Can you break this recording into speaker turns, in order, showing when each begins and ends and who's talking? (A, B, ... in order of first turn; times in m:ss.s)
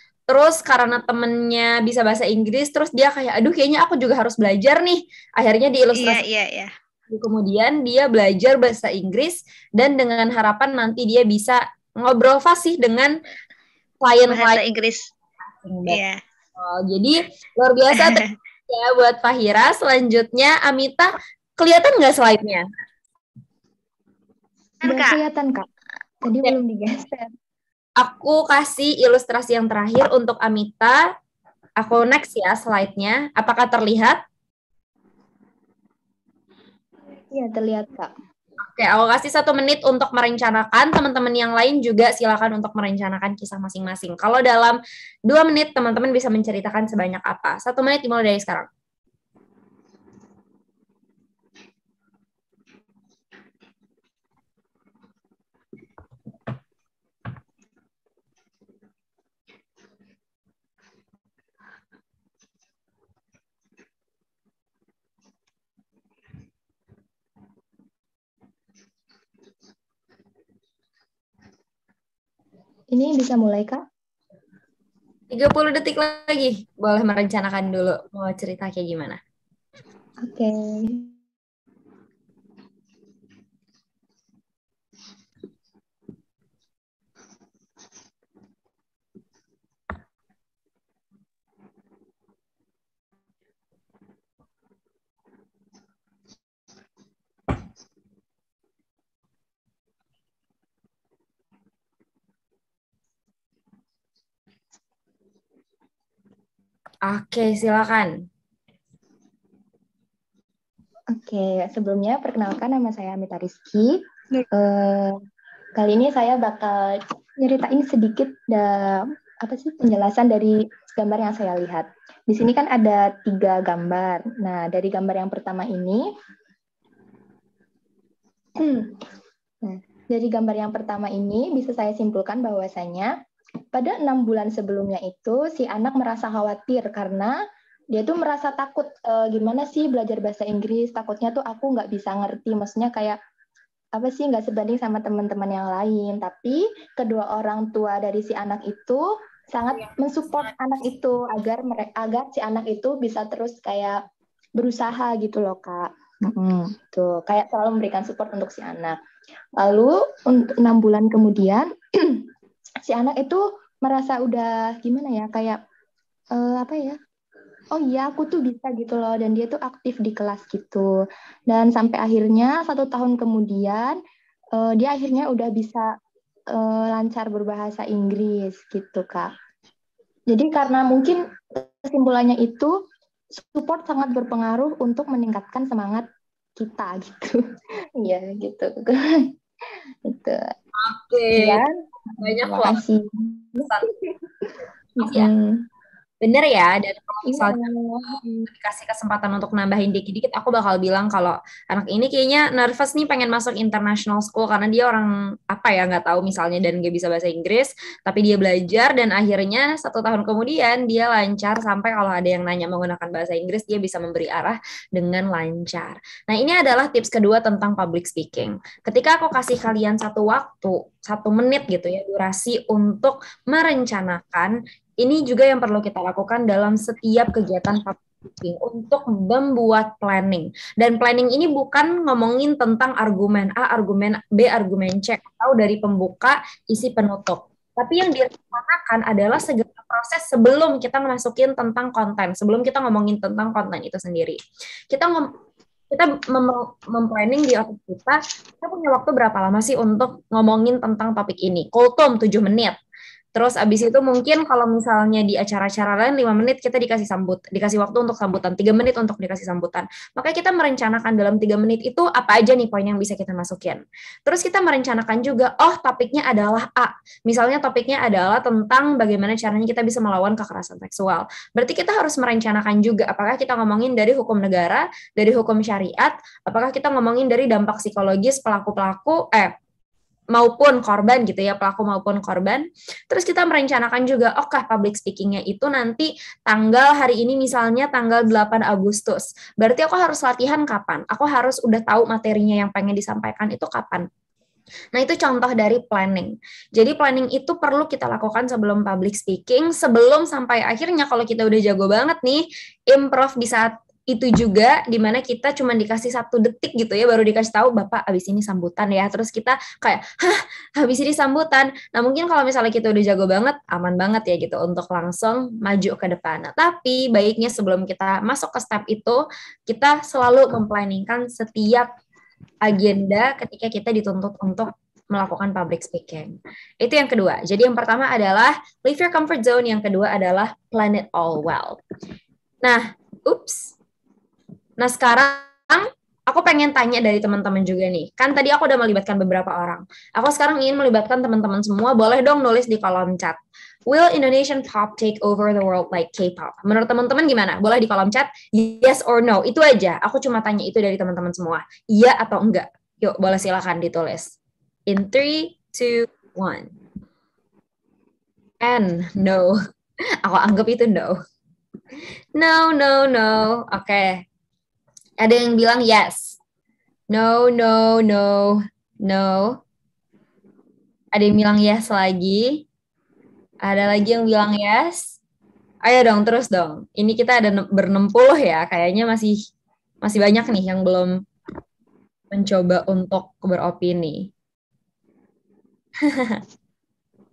0:00.3-0:06.2 A
0:05.9-0:06.7 B
0:07.1-0:13.2 A
0:14.0-0:14.6 A
0:14.3-0:15.1 B
0:15.6-0:16.0 A
0:15.9-0:16.2 B
0:16.6-0:22.6 A
0:17.9-0:18.3 B
0:24.8-0:25.2 B
0:24.8-0:25.7 C
0:26.2-0:27.3 C
0:28.0-0:31.0 A
0:31.8-0:34.2 A
0:37.3-0:38.1 C
0:38.6-0:48.7 A
1:12.9-1:13.8 C
1:15.3-1:19.2 A
1:20.2-1:21.1 C
1:47.0-1:48.2 A
1:51.1-1:54.0 C
1:54.5-1:55.2 C
1:55.8-2:06.0 C
2:08.6-2:09.0 C
2:09.6-2:13.1 C
2:13.7-2:17.3 C
2:17.9-2:23.2 C
2:23.9-2:34.0 C
2:34.6-2:39.0 C
2:39.6-2:42.3 C
2:42.8-2:45.6 C
2:46.3-2:47.0 C
2:47.8-2:50.9 C
2:51.5-2:54.0 C
2:54.6-2:55.9 C
2:56.5-2:59.3 C
3:00.3-3:02.7 C
3:03.4-3:06.0 C
3:06.6-3:07.4 C
3:08.0-3:09.3 C
3:10.1-3:10.5 C
3:10.8-3:11.6 A
3:11.3-3:13.8 C
3:12.2-3:12.8 A
3:13.6-3:13.9 A
3:15.0-3:15.3 A
3:15.0-3:15.6 C
3:16.2-4:04.4 A
3:17.2-3:18.5 C
4:04.9-4:05.3 A
4:05.9-4:12.8 A
4:13.3-4:39.5 A
4:40.3-4:54.1 A
4:54.9-5:21.9 A
5:22.6-5:31.8 A
5:32.6-5:33.7 A
5:34.8-5:54.3 A
5:54.9-5:56.7 A
5:58.6-5:59.6 A
6:00.2-6:01.2 A
6:02.4-6:04.2 A
6:05.2-6:06.4 A
6:07.1-6:09.6 A
6:11.1-6:12.6 A
6:13.6-6:15.1 A
6:15.8-6:19.4 A
6:20.0-6:21.2 A
6:22.3-6:24.3 A
6:26.1-6:26.4 A